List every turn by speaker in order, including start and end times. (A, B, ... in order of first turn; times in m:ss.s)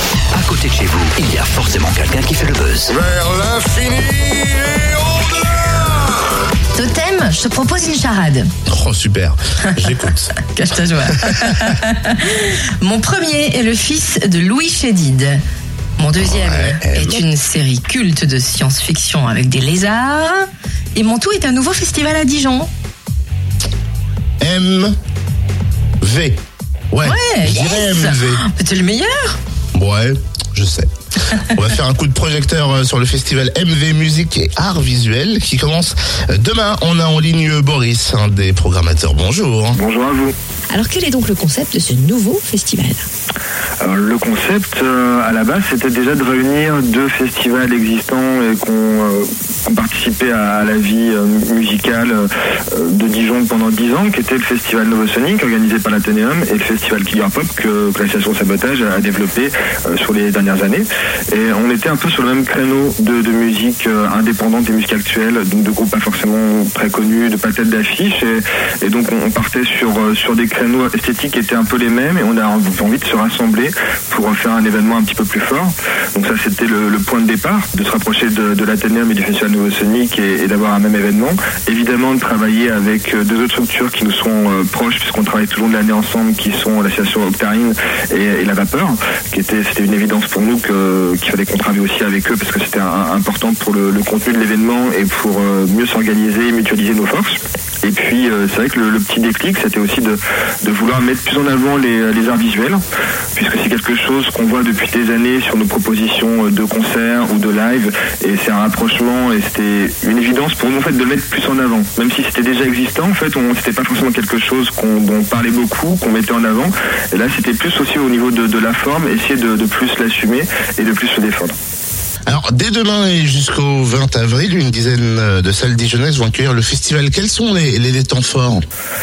0:00.3-0:02.9 A
0:02.9-0:06.1 B
0:06.7-0:08.5 C
0:08.7-0:10.4 D
0:10.4-0:15.4 C
0:16.0-0:20.4 C
0:16.2-0:17.2 D
0:20.9-0:22.7 C
0:24.4-0:25.0 D
0:26.0-0:26.4 D
0:26.9-0:28.4 D
0:27.0-0:29.4 C
0:29.7-0:39.8 D
0:39.7-0:40.3 E
0:40.7-0:43.1 F
0:43.8-1:42.8 E
1:43.4-2:01.5 E
2:02.3-2:08.6 D